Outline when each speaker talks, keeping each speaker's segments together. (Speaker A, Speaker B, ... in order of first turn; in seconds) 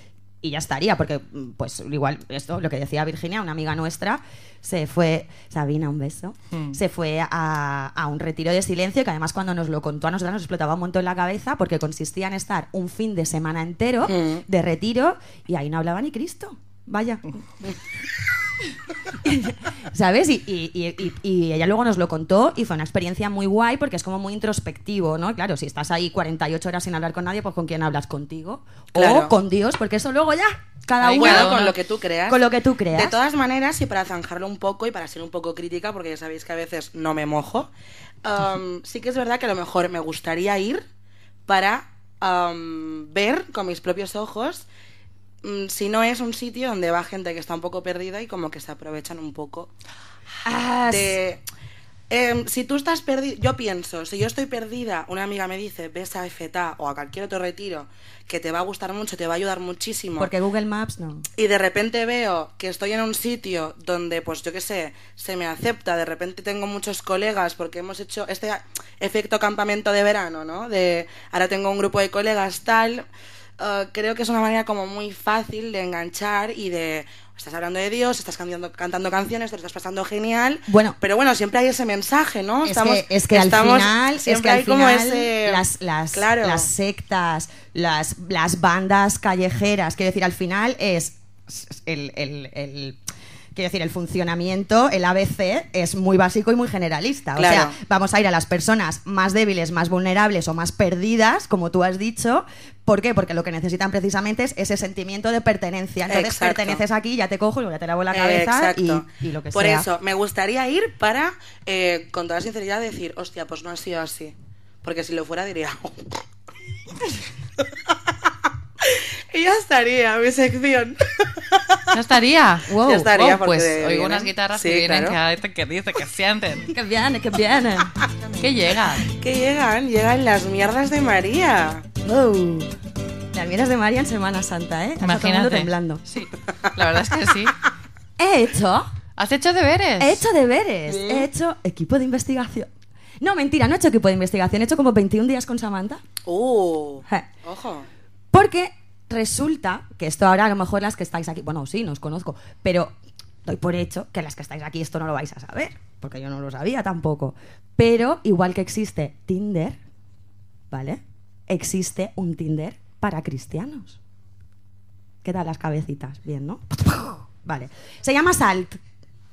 Speaker A: 0.4-17.4, 19.2-31.7, 32.3-33.2, 50.4-51.2, 60.2-61.2, 80.7-81.0, 82.6-93.0, 93.5-109.9, 122.7-123.1, 126.7-128.0, 132.0-132.7, 133.3-136.0, 138.2-138.9, 140.0-142.7, 143.2-146.0, 148.3-152.9, 153.4-159.8, 160.7-164.0, 165.2-168.8
Speaker B: 14.0-14.4, 28.9-29.3, 31.1-37.7, 38.2-40.8, 41.5-44.6, 45.4-49.7, 50.9-51.4, 52.1-60.3, 61.4-73.0, 73.6-86.7, 97.3-97.7, 106.1-106.8, 108.1-116.2, 118.8-121.8, 122.8-125.2, 129.0-131.8, 140.9-141.3, 146.2-147.8
Speaker C: 31.0-31.7, 121.9-126.7, 128.4-129.1, 135.0-137.5, 139.2-140.2